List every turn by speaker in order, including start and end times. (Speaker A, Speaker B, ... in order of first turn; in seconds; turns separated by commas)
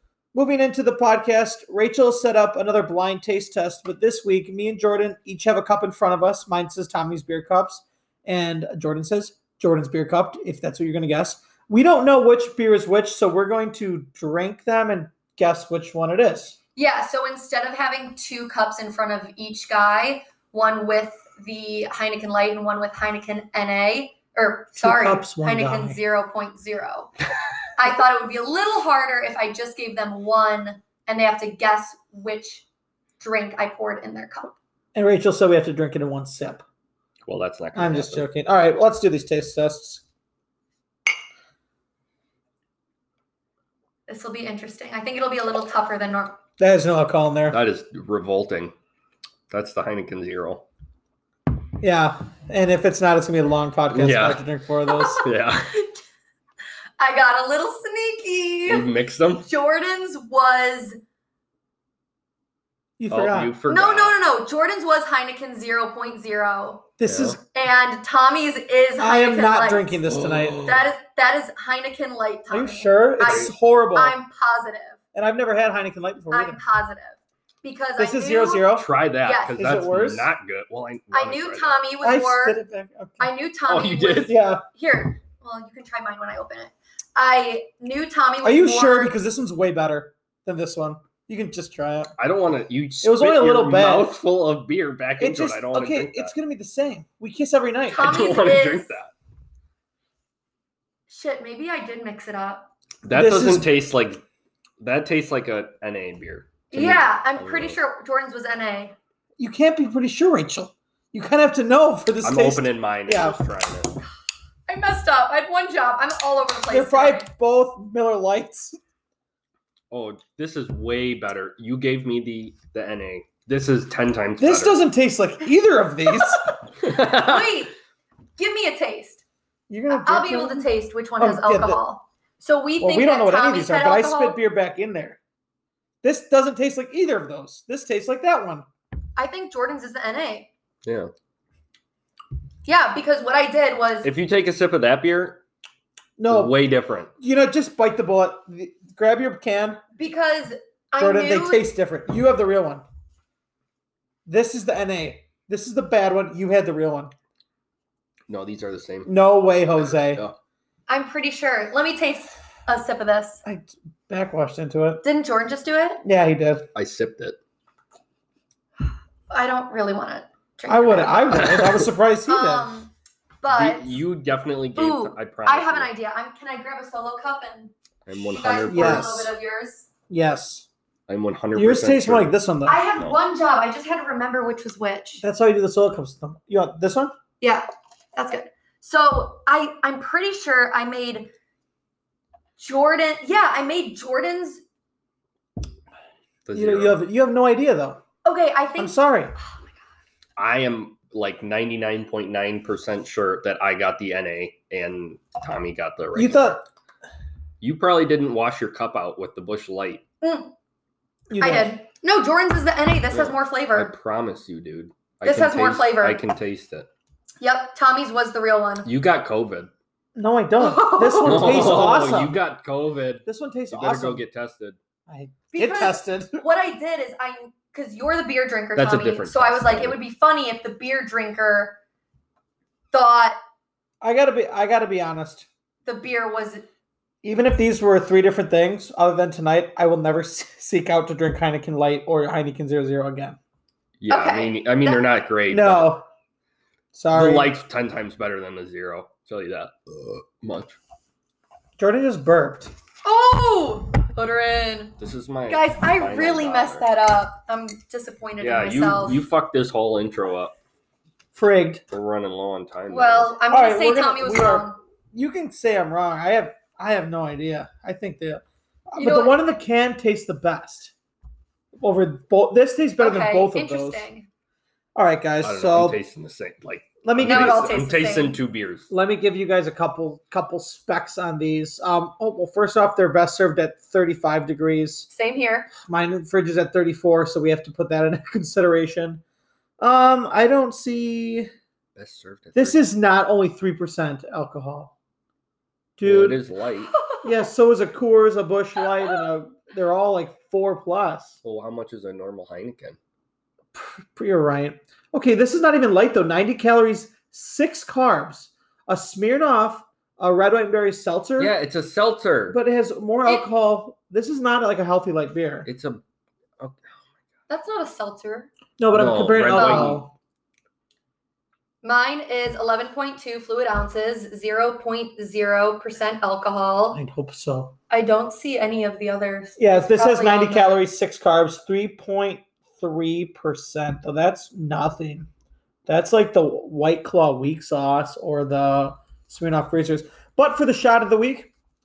Speaker A: 0.3-16.6, Speaker B: 16.8-27.1, Speaker A: 24.7-26.0, Speaker B: 27.7-32.6, Speaker B: 33.2-34.5, Speaker A: 34.9-36.6, Speaker C: 37.2-38.2, Speaker A: 37.7-40.0, Speaker B: 44.1-46.4, Speaker A: 46.6-47.6, Speaker C: 47.5-48.7, Speaker C: 49.5-50.6, Speaker A: 51.8-55.2, Speaker C: 53.9-54.4, Speaker C: 55.1-55.8, Speaker B: 57.0-58.9, Speaker C: 58.7-59.5, Speaker B: 59.5-61.0, Speaker A: 63.0-63.5, Speaker C: 63.1-64.1, Speaker B: 63.7-66.9, Speaker A: 67.0-67.4, Speaker C: 67.0-67.4, Speaker B: 67.5-69.9, Speaker A: 69.0-70.7, Speaker C: 70.1-70.8, Speaker B: 70.6-75.0, Speaker A: 72.5-74.2, Speaker C: 73.2-73.5, Speaker A: 75.1-76.6, Speaker B: 76.3-79.6, Speaker A: 78.0-78.9, Speaker C: 78.7-81.8, Speaker A: 79.6-80.3, Speaker B: 81.1-82.6, Speaker A: 82.0-83.3, Speaker B: 83.2-89.1, Speaker C: 83.7-84.4, Speaker A: 84.2-84.6, Speaker A: 88.4-92.1, Speaker C: 92.2-96.3, Speaker A: 93.0-94.1, Speaker A: 95.2-98.2, Speaker B: 97.9-99.0, Speaker C: 97.9-99.1, Speaker B: 101.1-102.7, Speaker C: 103.0-104.2, Speaker A: 103.1-103.7, Speaker C: 104.8-107.7, Speaker B: 106.7-108.9, Speaker A: 109.4-113.4, Speaker C: 112.2-113.9, Speaker B: 114.7-117.2, Speaker A: 116.7-118.8, Speaker C: 119.9-124.8, Speaker A: 124.4-126.4, Speaker C: 126.8-127.5, Speaker B: 126.8-127.7, Speaker B: 128.4-129.2, Speaker A: 129.7-130.7, Speaker B: 129.9-134.4, Speaker A: 131.2-131.8, Speaker A: 132.8-135.2, Speaker A: 136.0-138.7, Speaker B: 139.2-140.5, Speaker C: 140.8-141.1, Speaker B: 142.6-144.1, Speaker C: 144.0-145.4, Speaker A: 146.2-146.6, Speaker C: 146.3-147.1, Speaker A: 147.2-149.8, Speaker B: 150.0-151.7, Speaker A: 151.0-152.8, Speaker A: 154.2-157.1, Speaker C: 158.3-159.1, Speaker A: 159.1-160.2, Speaker B: 160.9-163.4, Speaker A: 163.4-165.0, Speaker B: 165.0-166.0, Speaker A: 166.0-166.7, Speaker C: 166.7-167.4, Speaker B: 169.3-171.6, Speaker A: 170.7-172.7, Speaker C: 171.4-171.7, Speaker B: 172.3-174.0, Speaker C: 173.5-175.9, Speaker B: 174.7-179.9, Speaker C: 178.1-179.3, Speaker A: 178.7-179.3, Speaker A: 180.1-180.7, Speaker C: 181.1-182.3, Speaker A: 181.5-182.8, Speaker B: 182.7-185.2, Speaker A: 185.2-187.1, Speaker B: 187.4-191.3, Speaker B: 192.6-194.6, Speaker C: 196.4-197.0, Speaker A: 196.5-198.0, Speaker B: 198.2-199.0, Speaker A: 198.8-199.3, Speaker C: 200.4-206.6, Speaker A: 206.1-206.6, Speaker C: 207.6-210.0, Speaker B: 210.2-210.5, Speaker A: 211.3-211.7, Speaker B: 211.4-213.9, Speaker C: 213.1-216.9, Speaker B: 215.2-216.2, Speaker B: 217.4-218.9, Speaker C: 218.8-219.7, Speaker A: 220.2-222.3, Speaker B: 220.6-221.8, Speaker C: 221.2-224.8, Speaker A: 223.2-224.2, Speaker A: 225.1-226.4, Speaker B: 225.5-231.8, Speaker C: 228.8-230.0, Speaker B: 232.9-233.4, Speaker A: 234.0-235.5, Speaker B: 235.8-236.6, Speaker A: 237.2-243.4, Speaker C: 244.0-245.9, Speaker B: 244.1-245.0, Speaker A: 245.5-246.0, Speaker A: 246.9-247.5, Speaker C: 247.1-250.8, Speaker A: 251.8-252.7, Speaker B: 253.0-255.0, Speaker C: 255.0-256.9, Speaker B: 255.5-259.2, Speaker C: 258.4-260.5, Speaker A: 261.3-261.8, Speaker C: 261.9-263.3, Speaker B: 262.9-264.8, Speaker A: 263.5-270.9, Speaker B: 269.0-269.5, Speaker A: 271.8-274.0, Speaker B: 273.0-274.3, Speaker A: 274.9-276.0, Speaker C: 275.4-278.9, Speaker A: 277.0-277.7, Speaker B: 277.2-278.4, Speaker A: 278.9-285.1, Speaker B: 285.1-285.7, Speaker A: 285.8-289.2, Speaker A: 289.8-291.5, Speaker C: 291.9-292.8, Speaker A: 292.5-294.9, Speaker A: 296.0-296.4, Speaker C: 296.0-296.9, Speaker B: 296.9-297.3, Speaker A: 297.2-301.4, Speaker C: 301.4-303.0, Speaker A: 303.7-311.5, Speaker C: 311.4-312.6, Speaker A: 312.5-315.7, Speaker C: 315.6-316.0, Speaker C: 316.6-317.0, Speaker B: 317.5-318.5, Speaker A: 318.8-320.1, Speaker C: 318.9-320.0, Speaker B: 319.5-320.0, Speaker B: 321.8-327.0, Speaker A: 326.9-327.7, Speaker B: 327.9-330.8, Speaker A: 329.6-335.3, Speaker A: 335.9-341.5